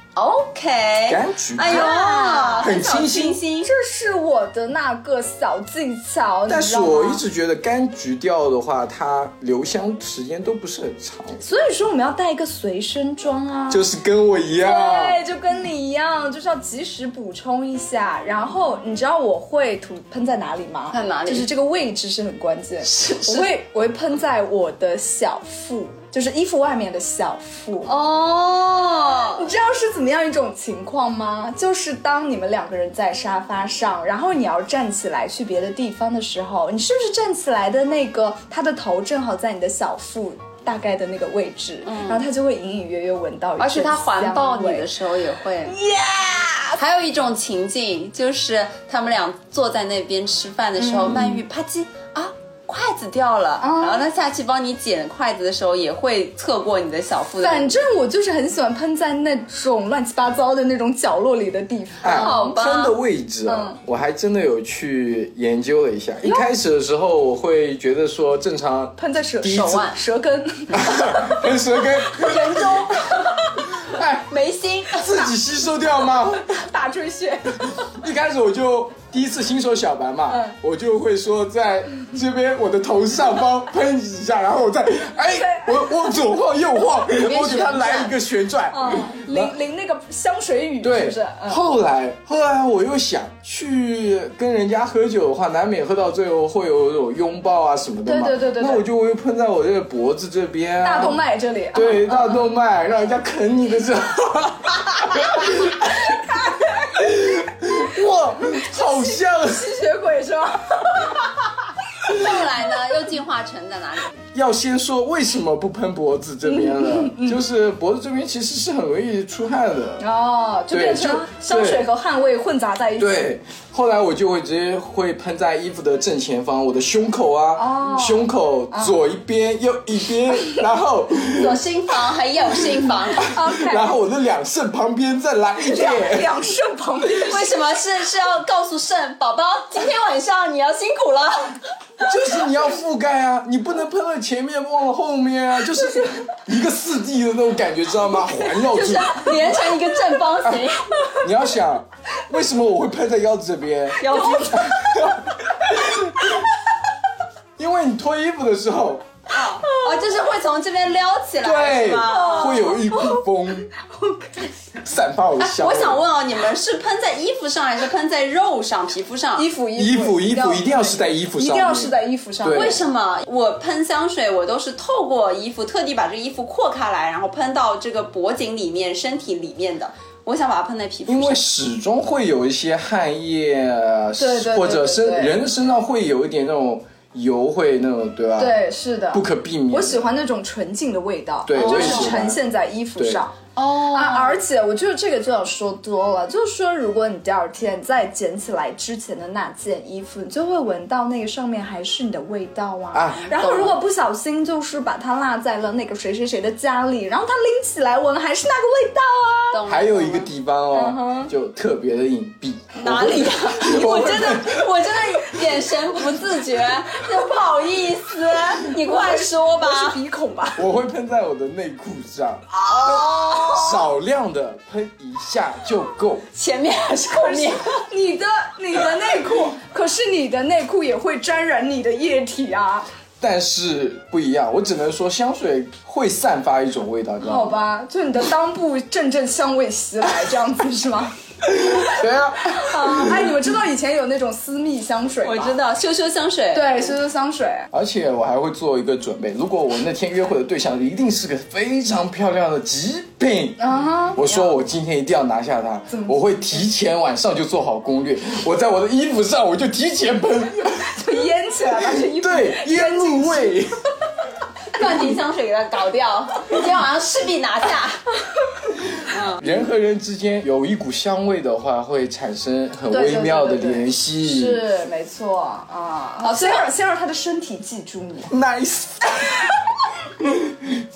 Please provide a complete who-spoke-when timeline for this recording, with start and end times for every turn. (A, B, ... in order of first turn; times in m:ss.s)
0:00.1-0:03.7 A
0:01.0-0:02.0 B
0:01.6-0:02.7 C
0:02.6-0:03.4 B
0:03.6-0:07.2 C
0:06.5-0:11.4 B
0:11.4-0:13.8 C
0:13.7-0:15.2 B
0:14.6-0:27.9 C
0:20.9-0:21.5 A
0:22.8-0:23.5 A
0:27.8-0:29.5 A
0:29.2-0:44.9 C
0:41.8-0:42.2 A
0:43.6-0:45.8 A
0:45.7-0:46.8 C
0:46.8-0:57.7 A
0:50.8-0:51.4 C
0:53.6-0:54.1 C
0:57.4-1:02.5 C
1:02.0-1:09.8 B
1:02.0-1:02.9 A
1:03.4-1:03.8 C
1:06.2-1:06.5 C
1:09.0-1:11.4 C
1:09.4-1:10.0 A
1:10.7-1:12.9 B
1:12.2-1:13.5 C
1:12.3-1:12.9 A
1:13.8-1:14.3 B
1:14.3-1:15.0 A
1:14.9-1:16.6 B
1:16.4-1:17.9 C
1:17.9-1:29.6 B
1:20.3-1:20.5 C
1:25.3-1:26.2 C
1:27.1-1:28.1 A
1:28.7-1:31.6 C
1:30.8-1:41.2 B
1:38.0-1:38.8 C
1:40.8-1:42.4 C
1:41.7-1:46.2 B
1:46.1-1:46.8 C
1:46.9-1:49.7 B
1:48.5-1:51.3 C
1:52.1-1:54.1 A
1:54.3-2:00.0 B
1:56.4-1:57.4 C
2:00.0-2:03.3 C
2:00.7-2:01.8 B
2:03.0-2:11.6 B
2:07.6-2:09.0 C
2:11.3-2:13.3 A
2:13.2-2:13.9 C
2:13.2-2:16.3 B
2:15.6-2:17.6 C
2:17.2-2:21.6 A
2:22.0-2:29.3 B
2:28.7-2:31.0 A
2:28.9-2:29.5 C
2:31.2-2:36.3 B
2:34.0-2:34.6 A
2:34.1-2:34.9 C
2:37.6-2:39.0 B
2:39.3-2:42.6 A
2:39.6-2:40.1 C
2:41.4-2:43.7 B
2:42.0-2:43.2 C
2:43.8-2:44.5 C
2:44.8-2:46.0 B
2:45.4-2:49.4 A
2:49.4-2:52.8 C
2:49.8-2:52.8 B
2:52.5-3:01.4 A
3:01.0-3:08.6 B
3:04.2-3:05.4 C
3:08.4-3:13.4 C
3:09.1-3:10.0 B
3:11.4-3:12.4 B
3:11.6-3:12.1 A
3:13.0-3:13.2 B
3:13.6-3:14.4 A
3:13.9-3:29.6 C
3:22.9-3:23.3 B
3:23.2-3:23.8 A
3:29.5-3:30.3 A
3:29.6-3:34.6 B
3:30.7-3:31.3 C
3:32.8-3:40.0 A
3:32.8-3:34.3 C
3:38.6-3:40.6 C
3:40.6-3:46.3 B
3:42.6-3:43.6 A
3:42.7-3:43.8 C
3:46.3-3:47.8 A
3:47.1-3:52.9 C
3:53.2-3:57.6 B
3:57.2-4:01.1 C
4:01.5-4:03.5 B
4:02.5-4:05.6 C
4:05.2-4:06.9 A
4:06.5-4:07.7 C
4:07.7-4:20.9 B
4:13.6-4:14.4 C
4:15.9-4:16.4 C
4:20.7-4:23.6 C
4:21.8-4:23.7 B
4:24.7-4:28.0 A
4:29.1-4:29.4 A
4:29.4-4:34.6 B
4:32.9-4:38.3 C
4:36.2-4:36.6 A
4:38.3-4:39.5 B
4:40.2-4:40.8 B